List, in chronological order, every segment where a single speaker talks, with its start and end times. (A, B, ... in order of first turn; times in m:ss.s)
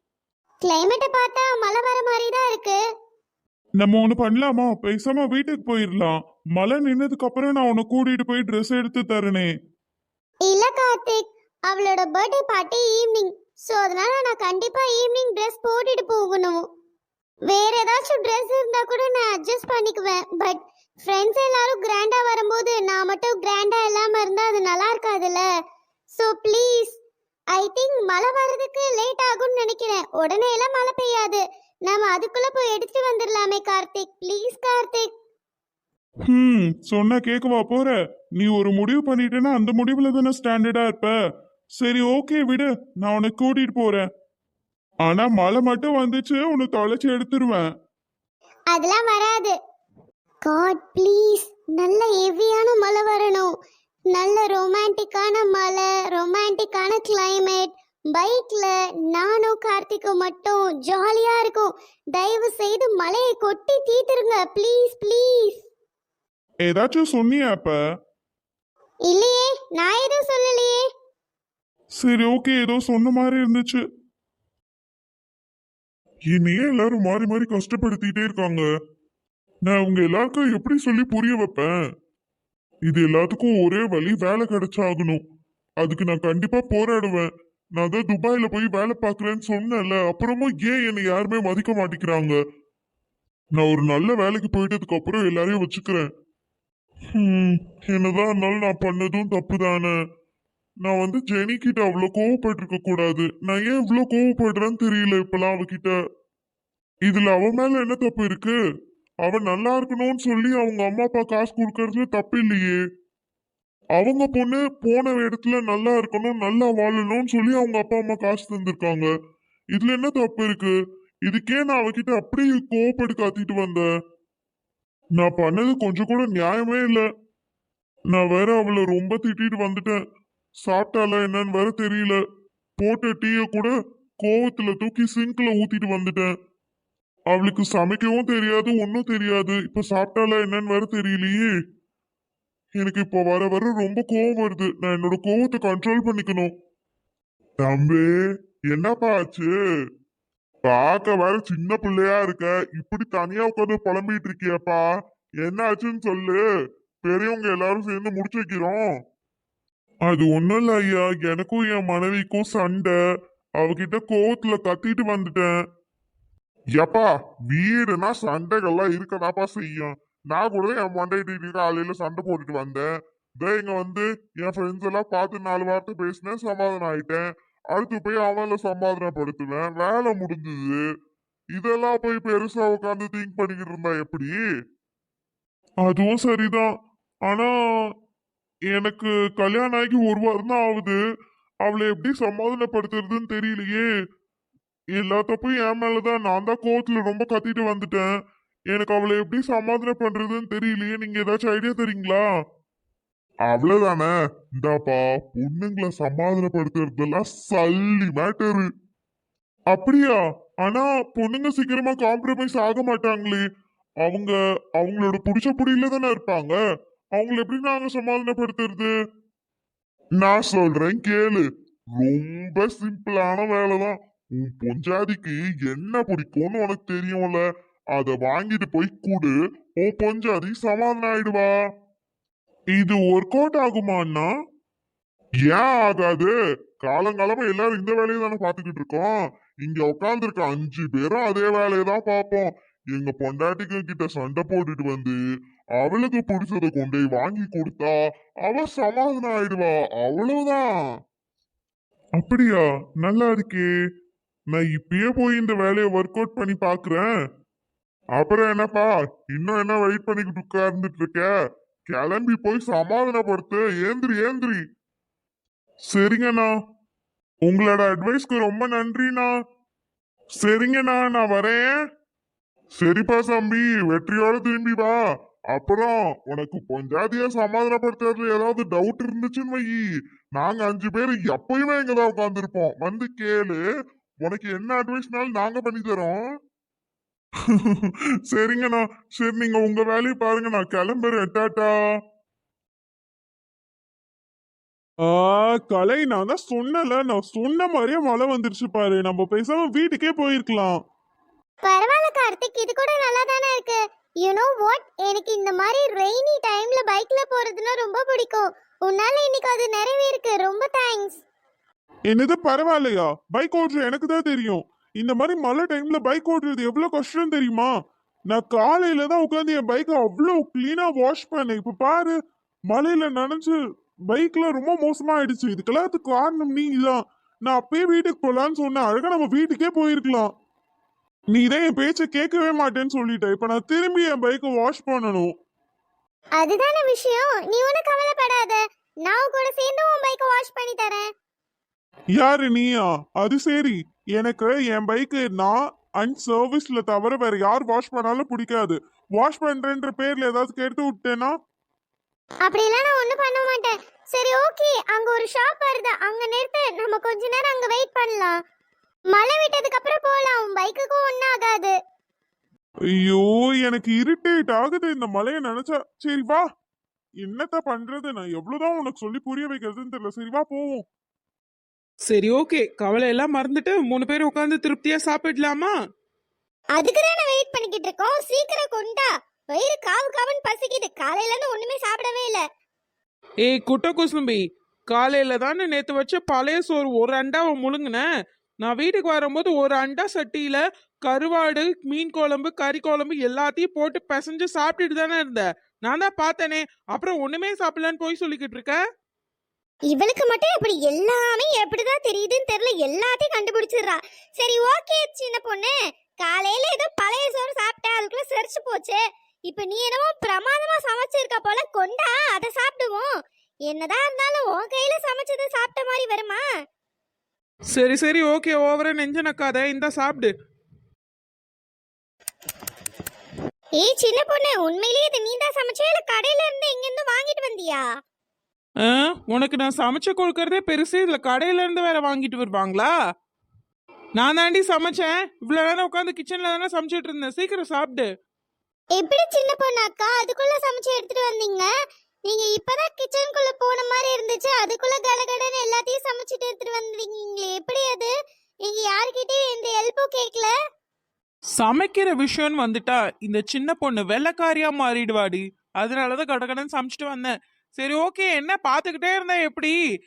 0:00.6-0:02.8 A
0:03.8-0:09.5 B
0:10.5-0:16.6 A
0:17.5-0:25.5 A
0:26.2-0:27.0 A
0:27.5-0:35.1 A
0:36.3-0:41.1 B
0:41.8-0:44.1 B
0:45.0-0:47.7 B
0:48.7-0:49.6 A
0:50.4-0:53.5 A
0:54.1-1:05.6 A
1:06.6-1:07.8 B
1:09.1-1:10.8 A
1:12.0-1:13.8 B
1:16.3-1:18.7 B
1:19.7-1:21.7 B
1:22.9-1:25.2 B
1:25.8-1:32.4 B
1:33.6-1:36.1 B
1:37.1-1:39.9 B
1:40.8-1:46.0 B
1:47.1-1:48.6 B
1:49.2-1:52.8 B
1:54.0-1:59.1 B
1:59.7-2:00.7 B
2:01.3-2:03.9 B
2:05.2-2:07.0 B
2:08.1-2:10.0 B
2:10.6-2:12.2 B
2:12.8-2:16.3 B
2:17.3-2:21.5 B
2:22.8-2:26.5 B
2:27.6-2:28.1 B
2:28.7-2:29.5 B
2:30.7-2:34.9 B
2:35.4-2:36.4 B
2:37.0-2:38.8 B
2:40.1-2:43.0 B
2:43.6-2:45.5 B
2:46.8-2:52.8 B
2:53.4-3:00.8 B
3:01.6-3:04.3 B
3:05.8-3:06.7 B
3:08.7-3:11.0 B
3:11.6-3:13.9 B
3:15.0-3:18.1 B
3:18.7-3:22.2 B
3:23.5-3:28.6 B
3:29.7-3:33.4 B
3:34.0-3:36.6 B
3:37.2-3:38.9 B
3:40.2-3:41.4 B
3:42.0-3:47.4 B
3:47.9-3:51.5 B
3:52.7-3:54.3 B
3:55.5-3:56.3 B
3:56.8-4:05.2 B
4:05.8-4:08.0 B
4:08.5-4:10.7 B
4:12.2-4:13.7 B
4:14.5-4:17.1 B
4:18.2-4:21.3 B
4:21.9-4:24.6 B
4:25.9-4:26.5 B
4:27.4-4:29.3 B
4:30.4-4:31.7 B
4:32.8-4:35.0 B
4:35.5-4:39.8 B
4:40.4-4:43.6 B
4:44.2-4:46.2 B
4:47.7-4:51.7 B
4:55.1-5:00.8 B
5:01.6-5:11.2 A
5:12.1-5:17.7 B
5:18.3-5:22.2 B
5:22.7-5:23.6 B
5:24.1-5:30.3 B
5:31.3-5:35.3 B
5:36.4-5:41.1 A
5:42.2-5:51.3 B
5:52.5-5:58.4 A
5:59.1-6:01.8 A
6:03.0-6:06.4 B
6:07.2-6:10.8 B
6:12.1-6:15.7 C
6:16.7-6:22.4 A
6:23.5-6:28.0 C
6:28.6-6:38.8 C
6:39.9-6:53.1 A
6:53.7-6:56.5 A
6:57.7-7:00.3 C
7:03.8-7:07.9 A
7:08.8-7:12.9 C
7:14.2-7:18.1 C
7:19.0-7:21.7 A
7:22.3-7:30.5 A
7:31.6-7:39.8 C